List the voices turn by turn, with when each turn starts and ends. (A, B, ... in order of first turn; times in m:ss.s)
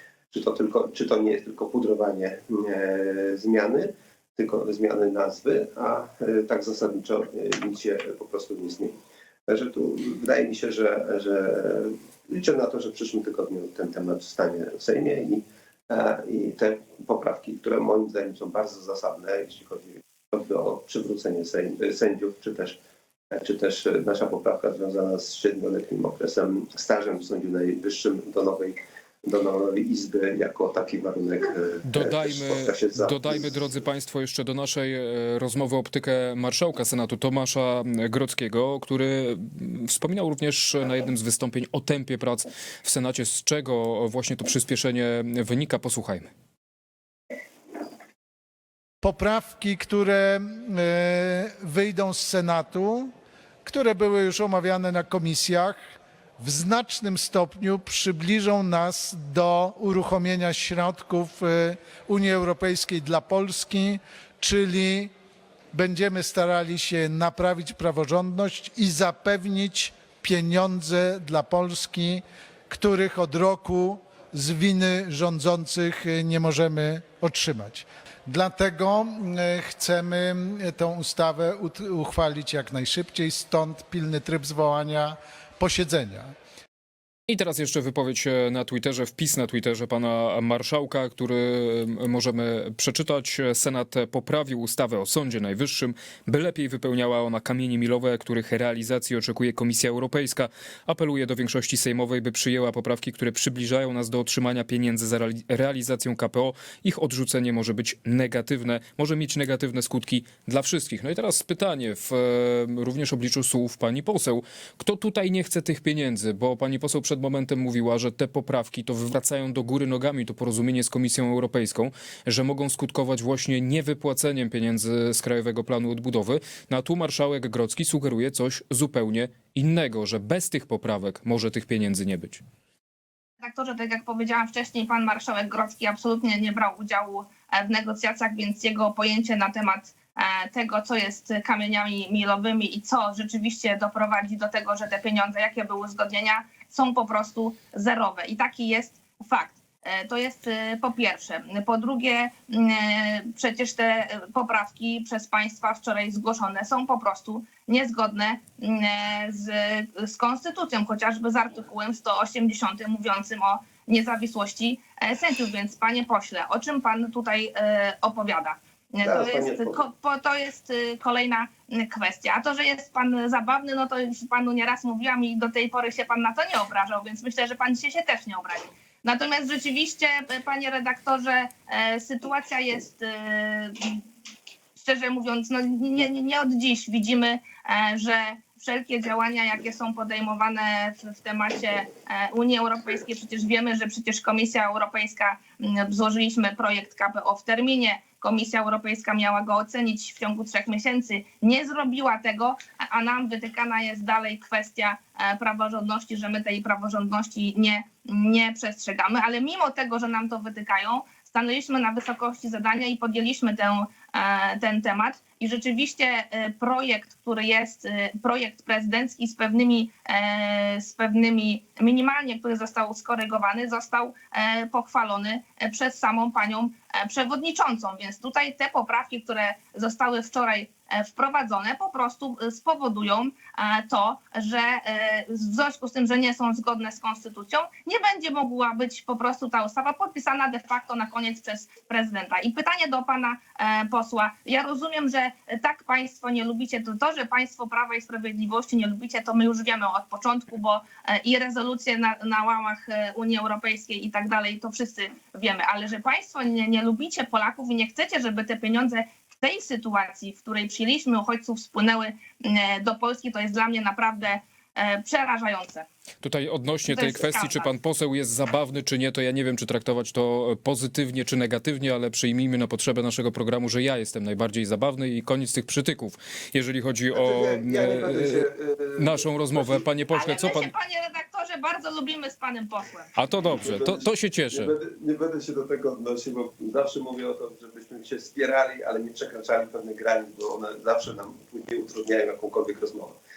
0:00.3-0:22.8 A
0:23.3-0:33.5 A
0:31.8-0:46.3 B
0:49.0-0:53.1 C
0:53.6-0:55.8 C
0:56.4-1:05.1 C
1:05.7-1:26.3 C
1:27.3-2:12.4 B
2:13.4-3:04.0 D
2:49.0-2:49.8 A
3:04.8-4:25.8 D
4:26.2-4:40.7 B
4:26.9-4:27.7 D
4:37.1-4:39.8 A
4:40.1-4:43.1 D
4:43.1-4:44.7 B
4:43.5-4:53.2 A